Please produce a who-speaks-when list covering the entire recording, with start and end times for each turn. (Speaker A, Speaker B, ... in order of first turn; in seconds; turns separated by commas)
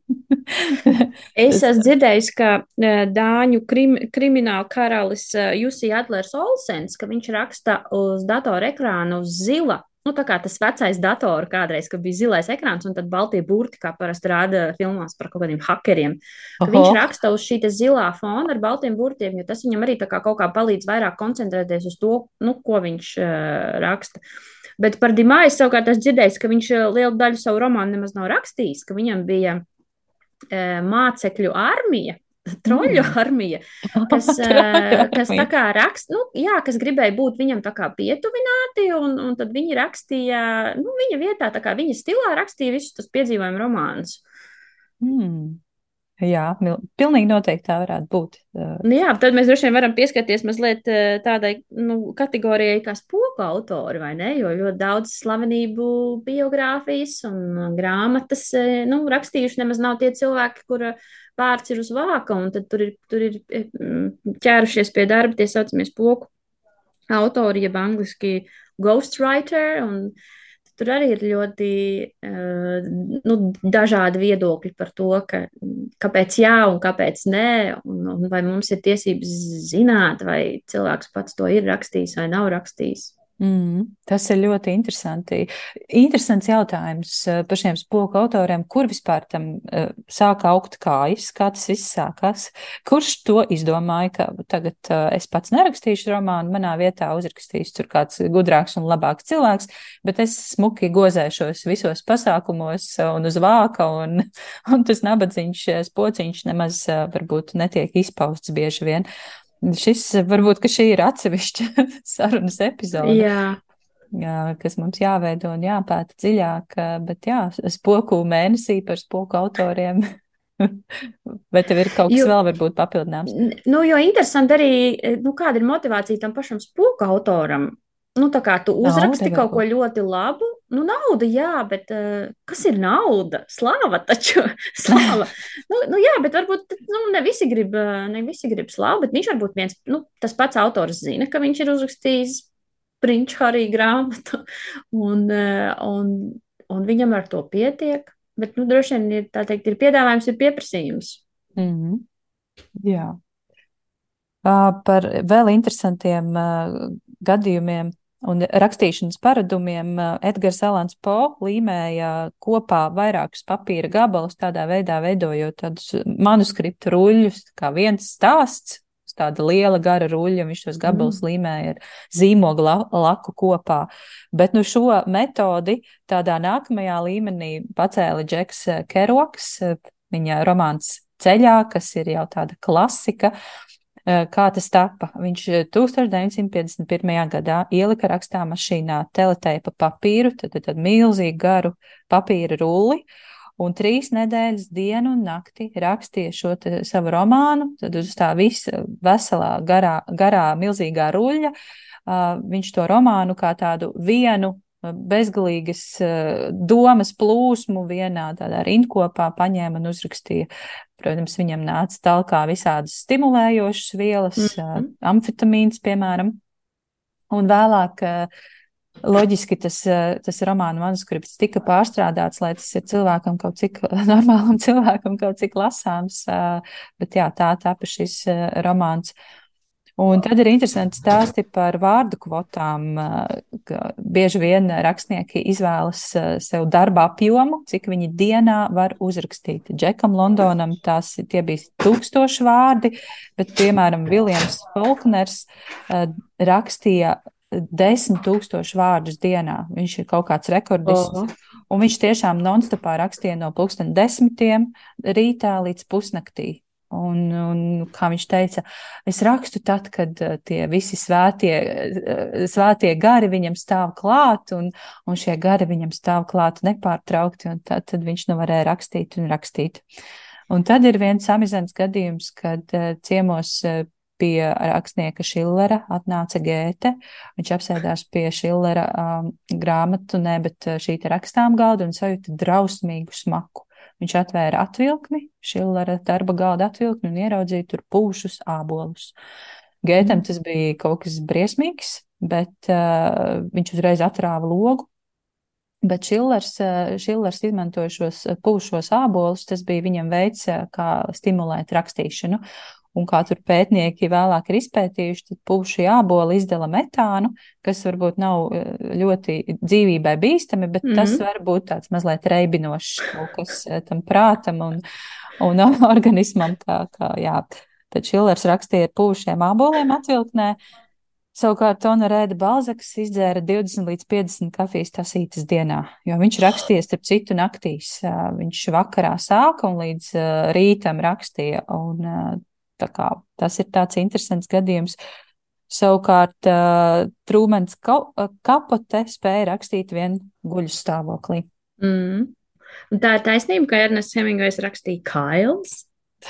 Speaker A: 0.3-1.7, Speaker B: 1.4-24.2, Speaker A: 16.6-17.0, Speaker B: 24.8-29.6, Speaker B: 30.5-44.2, Speaker A: 32.7-33.1, Speaker A: 33.9-35.5, Speaker A: 45.0-45.6, Speaker A: 46.2-48.8, Speaker B: 48.8-66.3, Speaker B: 67.1-70.1, Speaker B: 70.8-83.1, Speaker A: 83.4-109.1, Speaker A: 109.6-113.3, Speaker B: 113.0-113.6, Speaker A: 114.1-120.0, Speaker A: 120.6-123.3, Speaker B: 123.3-142.5, Speaker A: 128.8-129.6, Speaker A: 134.9-135.2, Speaker B: 143.0-151.2, Speaker A: 151.6-152.0, Speaker A: 152.8-153.2, Speaker A: 154.4-183.3, Speaker B: 170.8-171.2, Speaker A: 184.1-193.1, Speaker A: 193.6-201.5, Speaker A: 202.1-216.4, Speaker B: 214.4-214.9, Speaker A: 217.3-218.3, Speaker A: 219.0-229.1, Speaker A: 230.0-251.1, Speaker B: 250.8-251.3, Speaker A: 251.7-269.9, Speaker A: 270.5-289.1, Speaker A: 289.8-294.9, Speaker A: 295.8-302.4, Speaker A: 302.9-314.8, Speaker B: 310.9-311.2, Speaker A: 315.4-320.6, Speaker A: 321.4-335.0, Speaker A: 335.7-341.5, Speaker B: 341.8-342.3, Speaker B: 342.9-345.9